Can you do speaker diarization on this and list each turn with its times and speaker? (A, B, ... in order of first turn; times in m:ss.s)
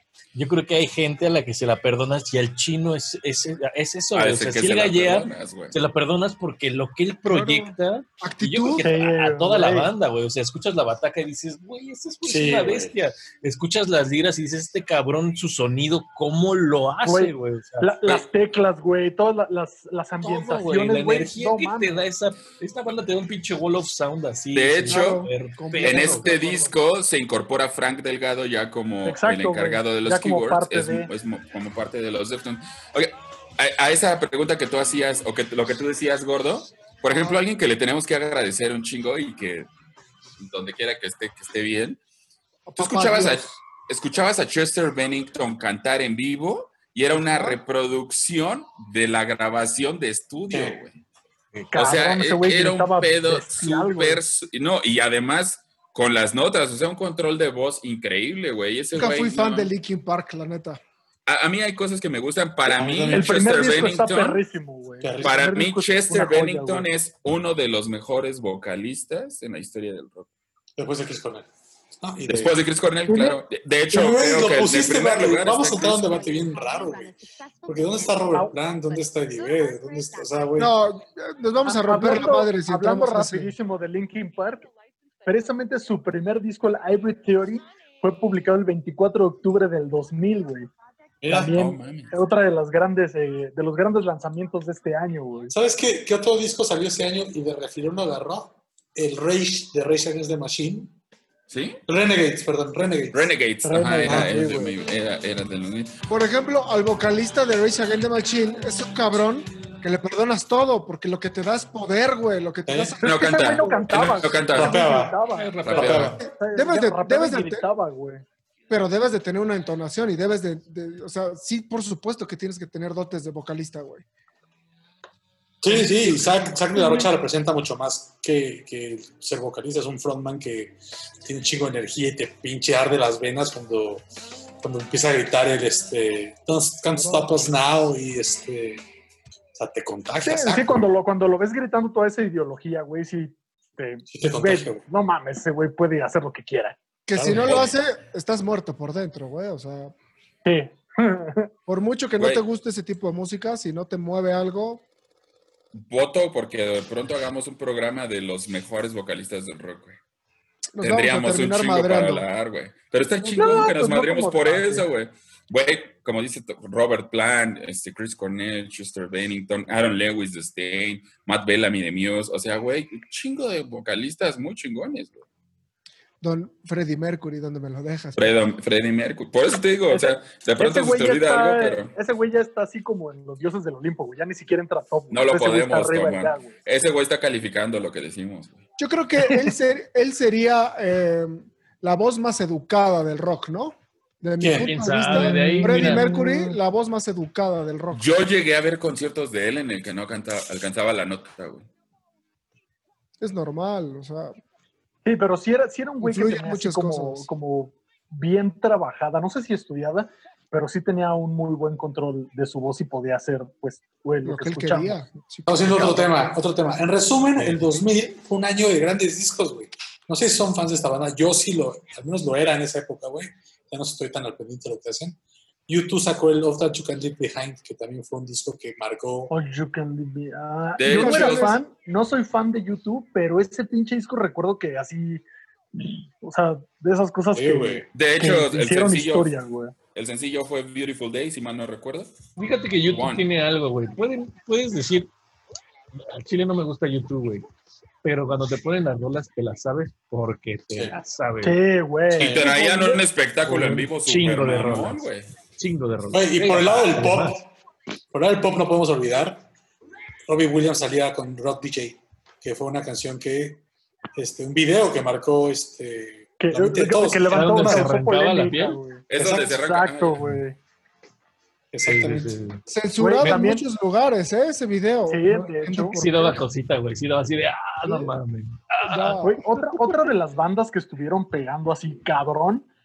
0:00.4-0:18.2 A
0:04.1-0:05.8 B
0:07.3-0:08.9 C
0:08.8-0:09.9 D
0:12.2-0:12.9 E
0:17.0-0:22.1 D
0:20.2-0:26.3 A
0:24.5-0:25.3 B
0:24.9-0:26.7 C
0:25.8-0:39.7 B
0:29.0-0:31.1 D
0:37.1-0:37.4 C
0:40.4-0:42.0 B
0:42.7-0:43.6 C
0:42.8-0:51.0 B
0:47.2-0:47.6 C
0:50.5-0:50.8 E
0:51.7-0:54.2 D
0:51.7-0:59.7 B
0:58.9-1:00.8 C
1:01.3-1:04.4 B
1:02.7-1:03.5 E
1:03.1-1:06.9 D
1:05.0-1:05.4 E
1:05.2-1:10.3 B
1:10.8-1:11.5 E
1:12.0-1:12.6 E
1:12.3-1:16.2 B
1:13.1-1:13.4 D
1:13.9-1:17.2 E
1:17.7-1:20.7 E
1:20.6-1:23.6 C
1:21.6-1:24.7 D
1:25.2-1:30.7 D
1:31.2-1:31.5 E
1:31.3-1:35.5 D
1:31.4-1:32.1 B
1:35.5-1:40.9 E
1:41.5-1:41.8 B
1:41.9-1:43.3 E
1:43.1-1:46.0 B
1:43.6-1:44.8 D
1:44.0-1:44.3 E
1:46.1-1:53.9 C
1:52.7-1:53.0 E
1:53.0-1:55.6 D
1:53.0-1:54.8 B
1:54.5-1:56.2 E
1:55.3-1:56.2 A
1:55.6-1:56.2 B
1:56.2-1:57.7 C
1:56.3-1:58.2 D
1:58.7-2:04.0 C
2:05.6-2:14.0 E
2:06.8-2:07.0 D
2:14.6-2:18.8 E
2:17.0-2:17.3 C
2:19.6-2:20.9 E
2:20.2-2:26.8 D
2:24.1-2:24.8 E
2:27.1-2:29.9 C
2:27.2-2:27.7 E
2:27.4-2:27.7 B
2:30.4-2:31.5 D
2:31.7-2:34.8 C
2:35.7-2:40.0 B
2:40.8-2:42.3 C
2:40.8-2:55.3 B
2:43.2-2:44.8 D
2:56.2-2:58.3 C
2:58.2-3:01.9 B
2:59.9-3:06.5 D
3:05.1-3:08.6 B
3:08.8-3:18.2 C
3:09.2-3:09.5 D
3:14.4-3:14.8 E
3:14.5-3:16.6 A
3:15.2-3:16.1 D
3:17.9-3:21.7 B
3:23.2-3:24.4 C
3:25.0-3:35.0 D
3:26.0-3:27.3 C
3:34.2-3:36.2 C
3:35.5-3:45.2 E
3:45.7-3:49.3 E
3:49.3-3:55.2 D
3:50.8-3:51.6 B
3:50.9-3:51.6 C
3:55.8-3:59.7 D
3:57.3-3:57.8 E
3:57.9-3:59.3 B
3:59.9-4:02.2 B
4:02.4-4:05.1 A
4:02.9-4:03.3 B
4:06.0-4:07.5 A
4:08.0-4:11.6 A
4:11.4-4:13.0 D
4:12.1-4:15.3 B
4:12.2-4:12.5 E
4:13.5-4:15.1 A
4:15.6-4:17.4 A
4:16.1-4:17.5 E
4:18.1-4:19.5 E
4:20.3-4:23.6 E
4:24.2-4:27.9 E
4:26.4-4:30.6 D
4:27.3-4:28.8 A
4:29.1-4:30.2 B
4:29.2-4:29.5 E
4:31.7-4:32.4 E
4:31.8-4:32.6 A
4:32.7-4:36.4 C
4:33.0-4:33.7 D
4:35.1-4:36.0 D
4:35.9-4:39.2 A
4:38.8-4:40.1 C
4:39.2-4:42.7 D